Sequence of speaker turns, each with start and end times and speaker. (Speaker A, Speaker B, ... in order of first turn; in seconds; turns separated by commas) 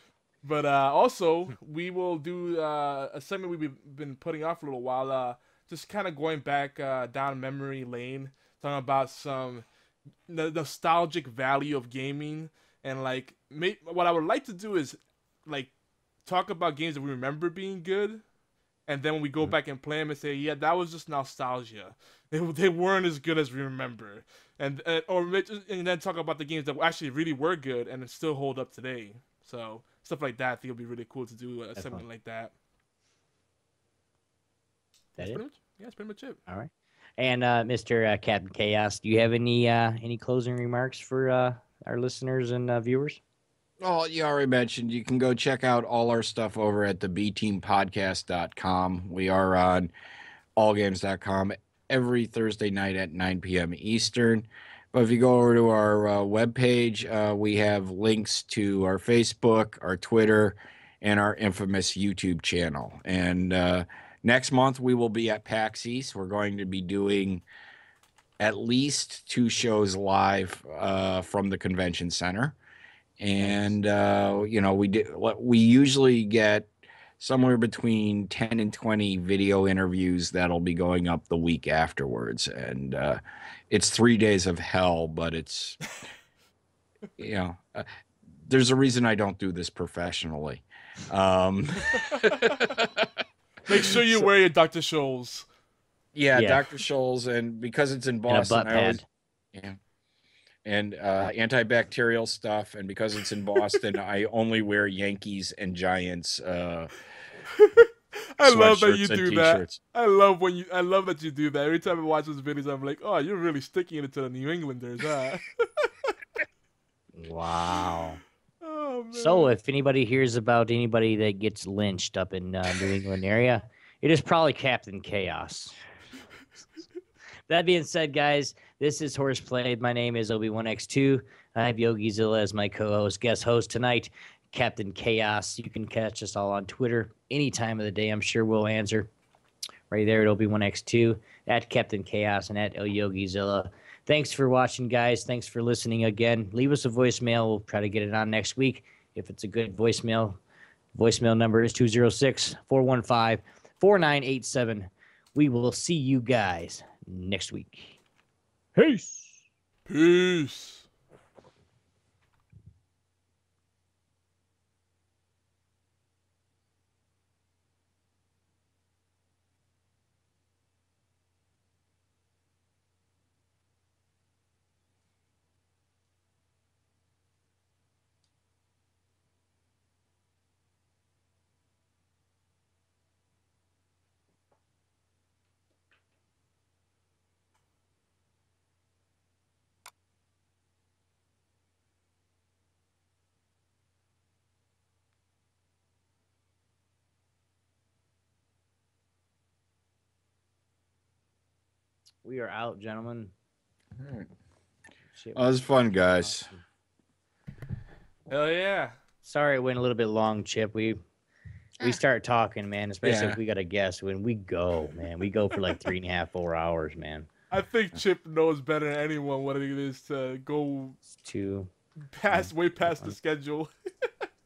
Speaker A: 0.4-9.7, Speaker A: 10.3-15.7, Speaker A: 16.3-18.2, Speaker A: 18.9-32.5, Speaker B: 31.8-32.0, Speaker A: 35.2-36.4, Speaker B: 36.5-43.2, Speaker C: 43.8-49.9, Speaker C: 50.6-67.4, Speaker C: 68.4-72.6, Speaker C: 73.2-85.8, Speaker B: 73.4-73.7, Speaker C: 87.2-87.9, Speaker C: 88.5-93.1, Speaker A: 93.7-95.5, Speaker C: 96.2-99.0, Speaker B: 96.3-96.6, Speaker B: 98.3-99.0, Speaker C: 99.5-99.8, Speaker C: 100.7-106.9, Speaker A: 107.5-115.9, Speaker C: 108.4-109.8, Speaker B: 117.1-118.2, Speaker A: 118.6-119.5, Speaker B: 119.1-125.8, Speaker B: 127.5-139.1, Speaker B: 139.9-150.4, Speaker B: 150.9-158.0, Speaker B: 158.8-159.4, Speaker A: 159.9-160.9, Speaker B: 202.2-203.3, Speaker C: 204.0-204.3, Speaker C: 205.3-206.5, Speaker A: 208.3-209.0, Speaker B: 209.2-211.0, Speaker B: 211.8-217.3, Speaker C: 213.0-213.4, Speaker A: 217.5-221.0, Speaker B: 221.2-221.7, Speaker A: 222.1-223.7